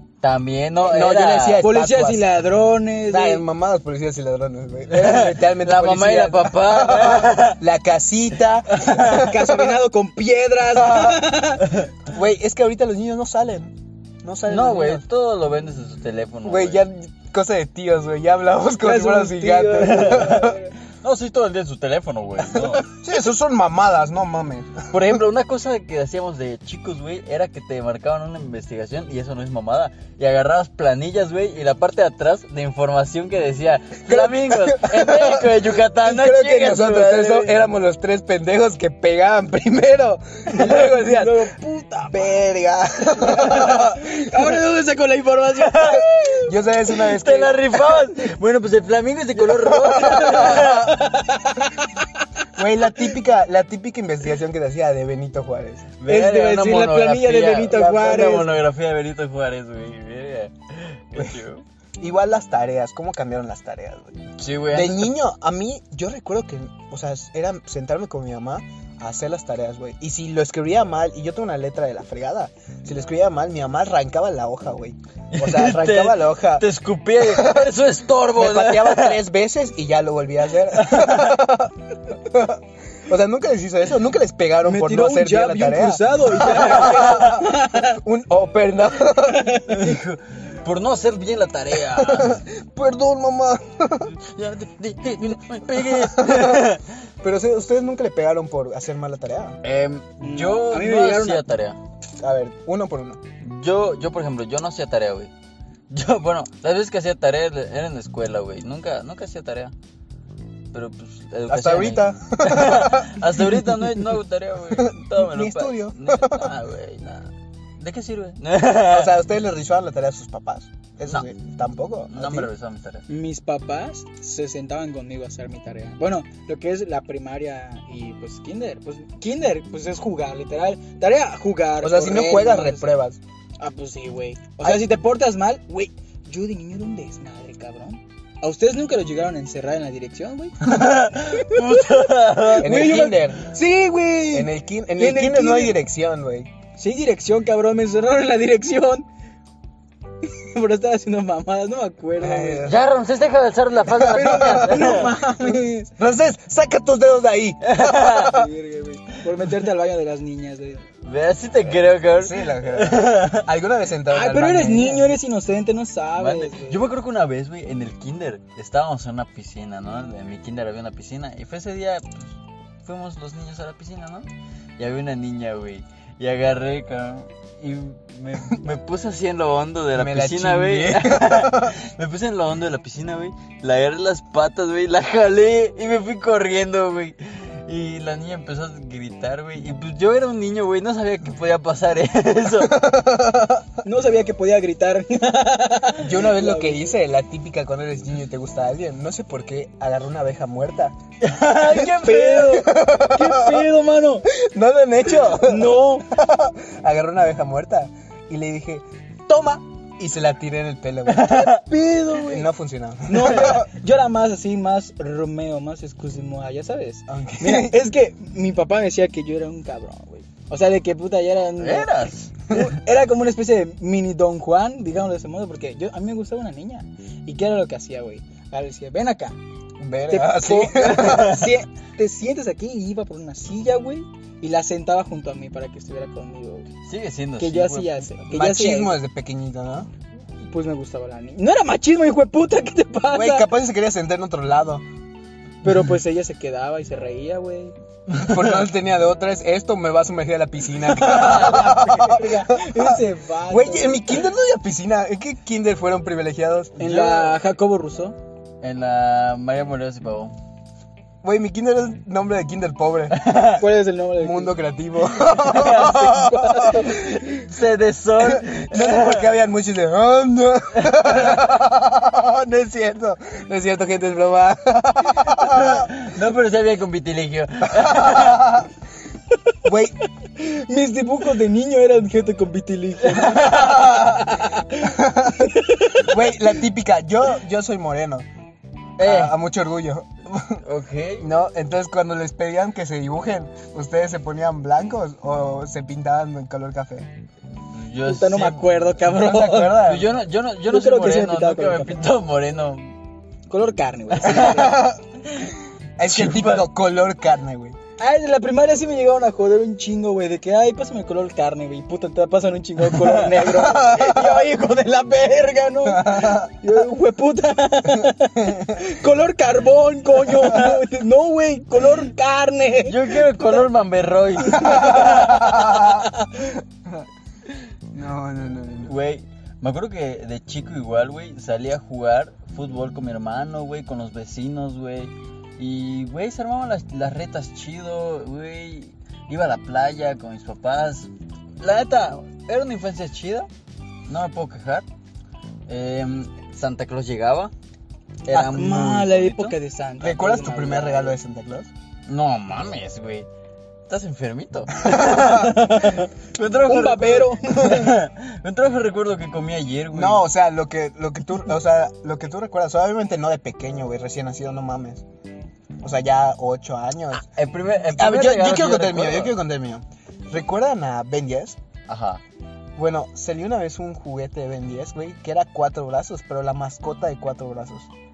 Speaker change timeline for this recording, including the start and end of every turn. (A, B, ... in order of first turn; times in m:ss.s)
0:00.2-0:01.6 A
0:00.8-0:02.3 B
0:01.6-0:03.4 C
0:03.1-0:09.7 B
0:04.9-0:07.6 A
0:08.8-0:09.2 A
0:09.0-0:11.7 C
0:10.7-0:11.3 B
0:12.1-0:15.0 B
0:14.5-0:16.8 A
0:16.4-0:20.5 B
0:18.8-0:20.7 C
0:19.9-0:22.9 A
0:22.4-0:25.2 B
0:24.9-0:37.6 A
0:34.1-0:41.5 B
0:40.5-0:42.4 C
0:42.1-0:44.1 B
0:43.2-0:46.5 C
0:45.6-0:46.0 A
0:46.4-0:47.6 B
0:47.0-0:51.0 A
0:49.6-0:50.8 B
0:50.4-0:51.9 C
0:52.6-0:55.9 B
0:56.0-1:01.6 A
0:56.0-0:58.6 C
0:57.7-0:58.5 B
1:02.0-1:04.2 B
1:04.4-1:05.1 A
1:04.7-1:16.7 B
1:15.3-1:19.2 A
1:17.2-1:17.7 B
1:18.4-1:29.5 B
1:20.7-1:21.4 A
1:24.6-1:28.0 C
1:26.5-1:27.2 A
1:29.2-1:30.0 C
1:29.7-1:32.4 A
1:31.9-1:34.1 B
1:34.2-1:36.8 A
1:35.8-1:39.6 B
1:39.6-1:41.8 A
1:40.2-1:41.4 C
1:42.2-1:43.2 B
1:43.4-1:45.3 A
1:45.9-1:49.7 A
1:50.7-1:59.2 A
1:51.5-1:53.9 B
1:54.7-1:56.5 B
1:58.8-2:02.5 B
2:02.1-2:03.1 A
2:03.1-2:13.0 C
2:11.8-2:13.2 B
2:13.6-2:25.8 C
2:20.6-2:22.9 A
2:22.6-2:23.5 B
2:24.3-2:26.5 B
2:26.8-2:29.1 C
2:30.3-2:32.7 C
2:32.2-2:32.8 B
2:32.6-2:35.2 A
2:34.0-2:35.9 C
2:34.2-2:34.7 B
2:35.4-2:38.2 B
2:37.6-2:38.4 A
2:38.2-2:40.8 C
2:41.0-2:43.5 A
2:42.1-2:45.1 B
2:44.1-2:46.8 C
2:46.2-3:12.8 A
2:59.9-3:01.7 B
3:12.7-3:13.6 B
3:13.8-3:16.9 C
3:16.0-3:20.9 B
3:21.2-3:22.6 A
3:21.6-3:24.3 C
3:22.4-3:23.7 B
3:24.3-3:31.3 B
3:25.3-3:26.1 C
3:31.1-3:31.6 A
3:31.2-3:32.5 C
3:32.1-3:33.7 B
3:33.1-3:41.9 C
3:37.1-3:37.8 B
3:41.6-3:42.3 A
3:42.5-3:49.4 C
3:49.8-3:51.4 B
3:50.1-3:56.7 C
3:50.8-3:51.5 A
3:56.8-3:58.1 A
3:57.4-3:59.0 C
3:58.3-3:59.9 B
4:00.5-4:03.5 C
4:03.1-4:04.8 B
4:05.6-4:07.7 C
4:08.1-4:08.5 A
4:08.1-4:16.8 B
4:10.8-4:14.0 C
4:16.8-4:18.2 C
4:16.8-4:17.4 A
4:18.6-4:20.4 A
4:21.2-4:23.4 B
4:23.1-4:23.6 A
4:23.6-4:24.6 C
4:24.2-4:26.9 B
4:25.3-4:26.0 A
4:25.6-4:27.1 C
4:26.8-4:29.3 A
4:28.2-4:35.9 B
4:30.8-4:31.4 A
4:35.3-4:38.6 A
4:37.8-4:38.7 B
4:39.6-4:40.0 B
4:40.3-4:46.2 C
4:43.1-4:44.2 A
4:43.5-4:44.2 B
4:44.8-4:48.2 B
4:49.0-4:50.6 B
4:49.0-4:49.3 A
4:50.6-4:51.2 A
4:51.2-4:57.1 B
4:57.7-4:58.8 A
4:58.0-4:59.9 C
4:59.0-5:00.1 B
4:59.7-5:02.9 A
5:00.7-5:02.1 C
5:03.5-5:04.8 C
5:04.2-5:04.8 A
5:04.4-5:05.0 B
5:06.0-5:07.8 B
5:06.1-5:06.6 A
5:08.0-5:23.3 C
5:12.9-5:13.6 A
5:13.9-5:14.2 B
5:15.9-5:16.5 B
5:22.8-5:25.6 A
5:24.4-5:26.6 C
5:24.6-5:26.0 B
5:27.9-5:28.9 B
5:28.8-5:43.5 A
5:44.1-5:44.8 A
5:45.7-5:47.5 A
5:48.2-5:49.5 A
5:48.3-5:51.2 C
5:50.0-5:51.7 B
5:52.1-5:53.3 A
5:53.9-6:00.2 A
5:54.8-5:55.5 B
5:55.2-5:56.1 C
5:56.6-5:58.0 C
5:59.9-6:05.0 B
6:05.8-6:07.2 B
6:07.1-6:09.4 A
6:07.9-6:11.6 B
6:11.9-6:12.2 A
6:12.8-6:17.9 B